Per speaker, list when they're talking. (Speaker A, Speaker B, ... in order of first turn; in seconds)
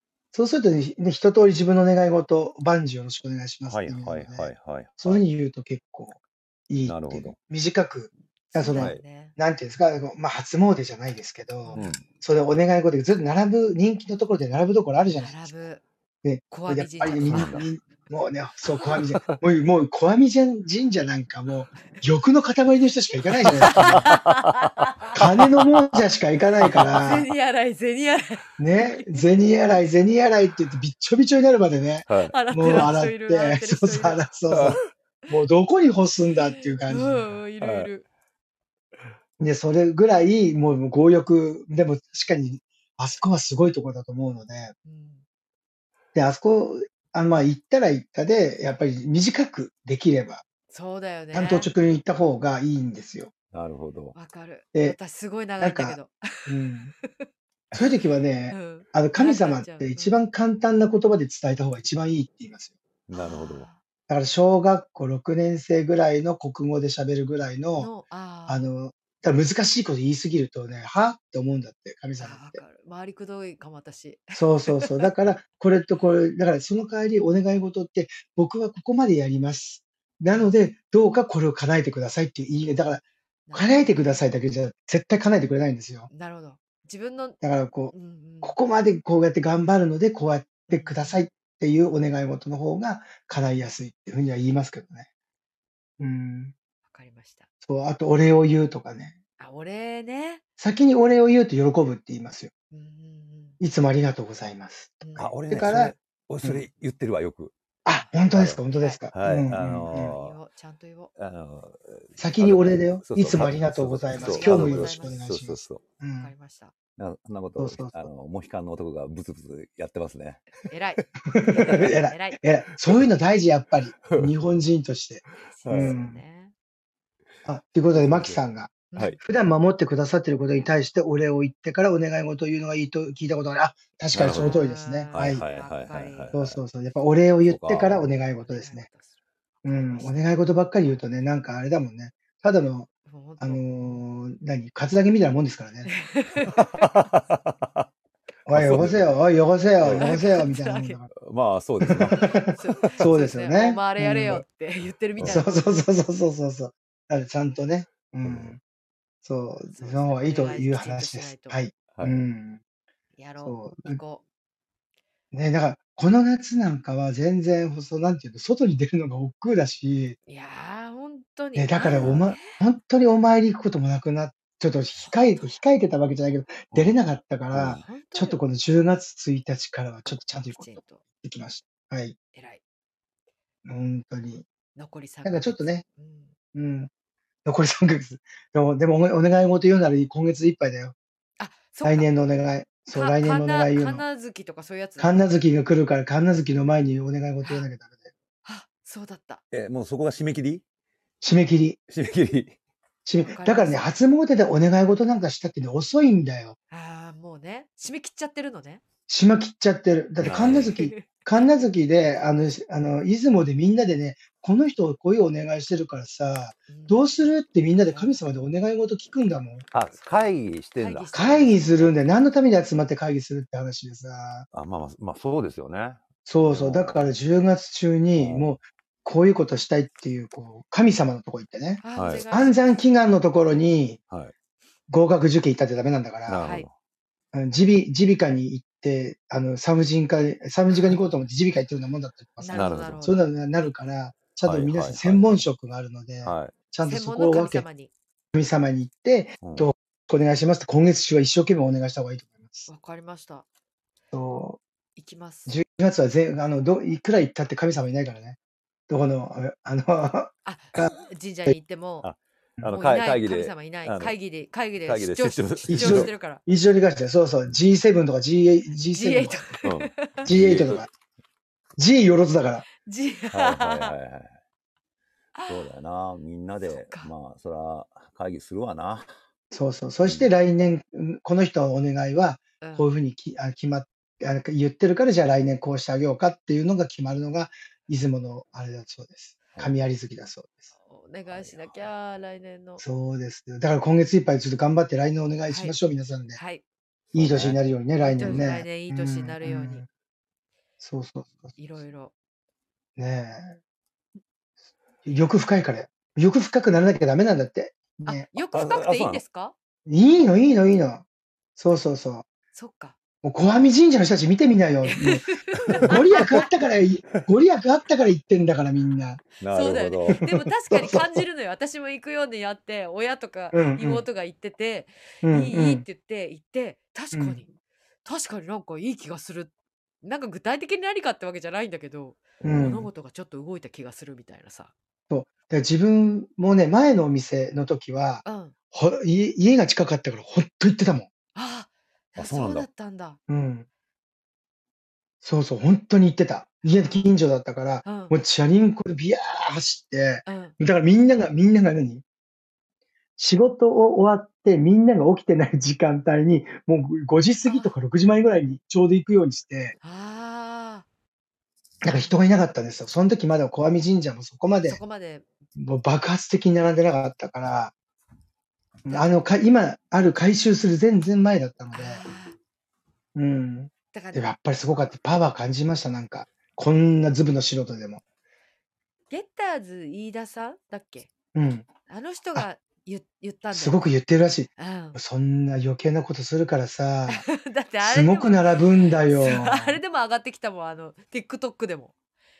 Speaker A: 0.3-15.6, 16.2-24.2, 25.1-27.3, 28.6-37.2, 39.4-44.7, 46.1-50.4, 51.3-53.3, 55.6-56.9, 57.7-62.8, 64.1-67.9, 68.5-72.6, 74.3-86.1, 87.4-95.1, 96.0-96.5, 97.6-99.2, 100.6-102.5, 103.6-106.6, 107.8-110.1, 112.2-116.3, 117.6-118.1, 121.2-126.2, 127.5-135.4, 136.3-138.9, 139.6-145.9, 148.5-151.1, 151.8-154.4, 155.2-158.6, 159.2-162.6, 163.4-164.0, 165.3-170.2, 171.6-182.2, 183.6-184.5, 185.2-185.8, 186.5-186.9, 187.4-190.9, 191.8-194.0, 195.0-198.1, 201.2-201.8, 203.0-206.6, 209.1-219.7, 221.1-224.5, 226.2-234.0, 234.9-236.4, 237.3-247.7, 248.3-252.7, 254.1-254.6, 255.5-258.4, 258.9-260.9, 265.7-269.5, 270.2-270.9, 271.8-272.6, 279.5-290.7, 292.8-296.4, 297.1-299.9, 300.8-301.6, 303.0-303.6, 305.0-308.3, 309.9-311.0, 311.6-312.3, 313.2-319.2, 320.1-321.2, 323.5-324.0, 325.2-325.8, 327.1-327.4, 332.4-332.9, 335.1-341.1, 343.3-343.6, 345.2-352.0, 353.2-359.7, 361.8-364.8, 365.6-367.7, 368.8-372.1, 373.1-378.0, 381.3-381.7, 383.5-387.2, 387.8-389.8
Speaker B: 3.7-5.2, 6.8-7.3, 8.7-9.0, 11.8-12.0, 17.3-17.6, 23.7-24.7, 26.6-27.0, 32.1-32.9, 34.5-34.8, 37.6-37.9, 53.5-54.1, 63.1-63.7, 105.2-107.5, 108.3-108.6, 109.1-110.4, 111.2-115.8, 117.0-120.5, 124.1-124.3, 125.6-126.0, 127.9-128.4, 134.1-134.6, 135.1-136.6, 137.4-138.0, 146.7-147.8, 148.5-149.1, 149.8-150.2, 151.2-152.9, 158.2-158.5, 161.9-162.2, 171.9-172.3, 177.5-177.8, 199.5-200.6, 201.9-202.6, 210.2-210.8, 219.7-221.9, 224.5-227.1, 228.1-228.5, 231.9-232.3, 236.3-236.7, 242.5-243.1, 244.4-245.4, 246.2-246.5, 249.4-249.7, 262.0-264.1, 264.8-266.1, 269.6-270.8, 273.3-274.3, 275.5-279.1, 280.1-280.3, 291.3-291.9, 297.1-297.6, 298.2-298.5, 308.5-309.2, 315.6-316.4, 319.4-320.2, 332.4-332.7, 342.1-342.7
Speaker C: 8.5-9.4, 11.6-12.0, 15.2-15.8, 16.5-17.7, 18.7-19.0, 23.6-25.2, 26.9-29.3, 32.3-34.9, 36.5-38.0, 44.8-45.2, 50.7-51.7, 54.1-57.3, 58.5-60.2, 63.1-63.8, 67.8-68.7, 72.2-75.1, 83.5-84.2, 86.1-87.4, 87.9-88.6, 90.7-91.2, 96.9-97.5, 99.4-100.4, 102.7-103.6, 105.0-105.4, 107.9-108.2, 108.7-109.1, 109.9-111.1, 114.1-115.2, 116.2-116.7, 120.5-122.4, 125.5-126.5, 128.9-129.2, 134.3-136.3, 138.4-139.1, 139.6-140.5, 143.1-144.0, 145.8-146.8, 149.9-151.0, 152.1-155.8, 159.7-161.6, 163.2-164.2, 170.3-172.6, 174.9-175.6, 177.7-178.4, 180.5-181.0, 182.3-182.6, 184.7-186.3, 191.4-192.1, 192.9-195.2, 198.4-199.4, 203.3-203.9, 206.7-208.8, 210.7-211.5, 216.7-217.0, 217.9-218.2, 220.8-221.9, 231.8-232.8, 236.4-236.7, 242.4-243.2, 246.8-247.9, 252.7-253.4, 255.0-255.6, 260.4-262.1, 262.7-266.4, 268.9-270.3, 272.8-273.9, 275.3-275.7, 276.8-277.1, 282.6-282.9, 290.7-292.8, 295.5-295.7, 296.3-296.6, 298.0-299.8, 301.6-302.1, 308.1-309.5, 312.5-312.9, 314.8-316.2, 319.5-327.5, 328.0-329.5, 330.0-334.7, 338.2-338.5, 341.3-343.2, 346.7-347.1, 347.8-348.2, 350.2-350.6, 357.4-357.7, 359.8-360.9, 361.9-362.2, 364.6-365.2, 368.9-369.1, 371.7-372.4, 373.9-374.3, 379.1-381.1, 381.9-383.8, 384.6-385.0, 387.1-388.5, 389.0-391.9